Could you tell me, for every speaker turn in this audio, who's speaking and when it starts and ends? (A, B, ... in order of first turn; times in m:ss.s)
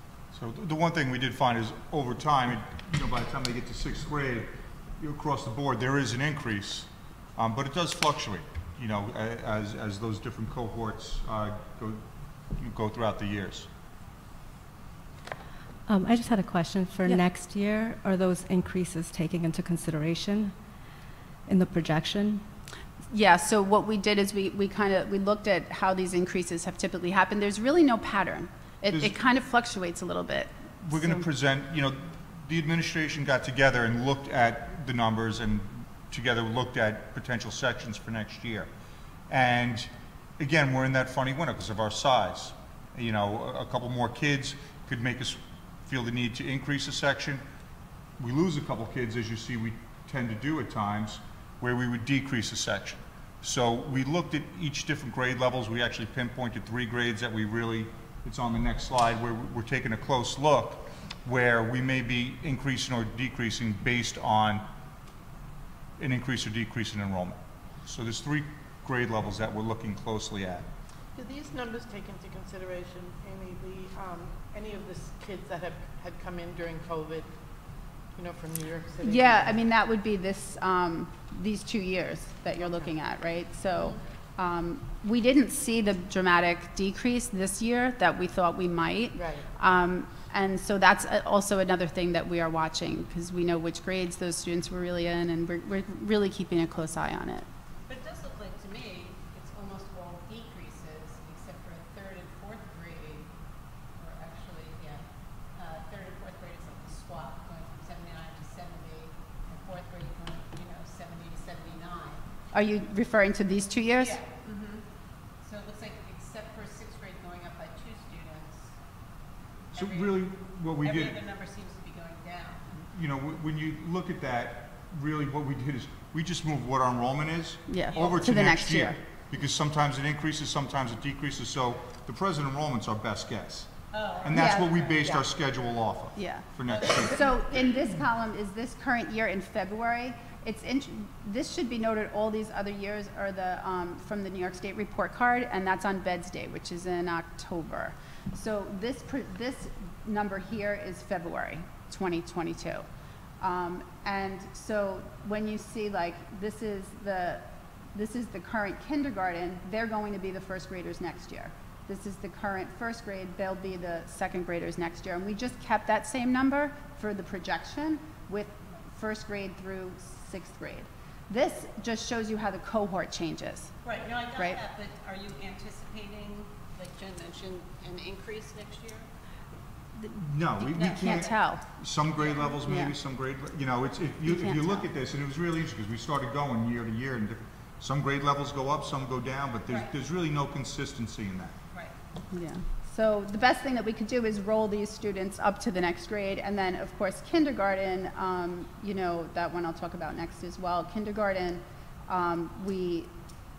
0:00.3-0:13.7 A
0:15.9-0:20.5 B
0:21.5-0:22.4 B
0:23.1-0:31.2 C
0:28.9-0:29.2 A
0:30.8-0:38.7 A
0:39.3-0:47.4 A
0:48.2-1:04.7 A
1:06.0-1:10.7 A
1:11.2-1:17.3 D
1:18.2-1:19.6 D
1:19.0-1:37.5 C
1:22.6-1:22.9 D
1:23.7-1:24.0 D
1:29.2-1:29.5 D
1:37.9-1:43.3 E
1:43.9-1:52.2 E
1:52.5-1:54.2 C
1:54.0-1:54.9 E
1:55.4-1:58.8 E
1:59.7-2:01.2 A
1:59.7-2:02.8 E
2:02.9-2:17.2 A
2:07.7-2:09.0 C
2:07.9-2:08.3 E
2:13.9-2:15.2 E
2:14.4-2:14.8 C
2:16.2-2:16.5 C
2:16.7-2:17.8 E
2:17.0-2:32.8 C
2:33.4-2:53.7 C
2:53.8-2:59.1 E
3:00.1-3:11.6 A
3:00.6-3:01.4 E
3:01.0-3:01.6 C
3:02.2-3:02.6 E
3:02.6-3:02.9 C
3:04.3-3:04.9 C
3:09.7-3:09.9 E
3:12.3-3:23.1 C